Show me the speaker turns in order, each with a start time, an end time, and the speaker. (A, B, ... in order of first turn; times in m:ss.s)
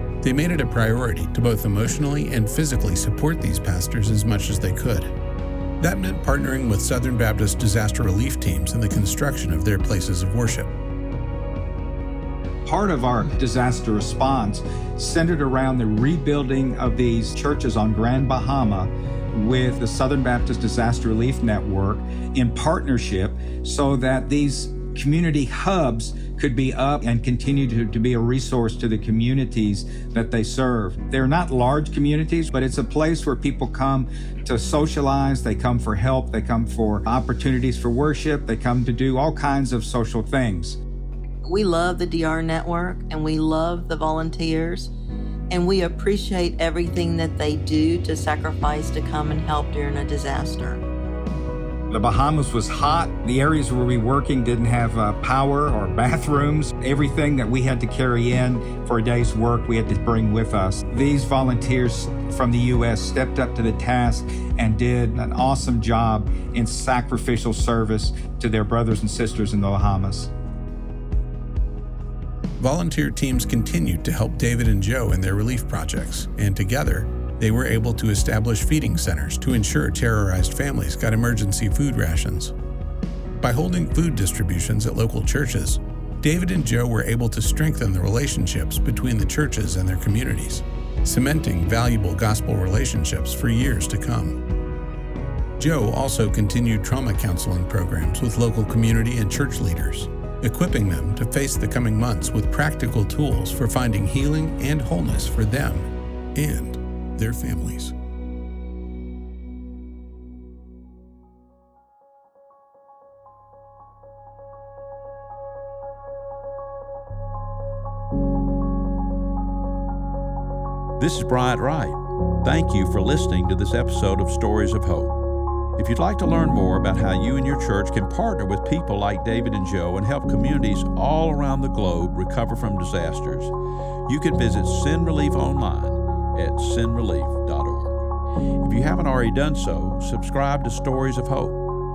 0:00.2-0:05.1 A
0:05.8-0:10.7 A
0:12.6-0:40.8 B
0:41.4-0:44.9 C
0:45.5-0:50.8 C
0:51.9-1:10.3 B
1:12.6-1:22.5 A
1:23.4-1:34.4 A
1:35.6-1:47.9 A
2:01.0-2:05.2 D
2:05.8-2:13.5 D
2:14.0-2:18.0 D
2:18.6-2:21.6 D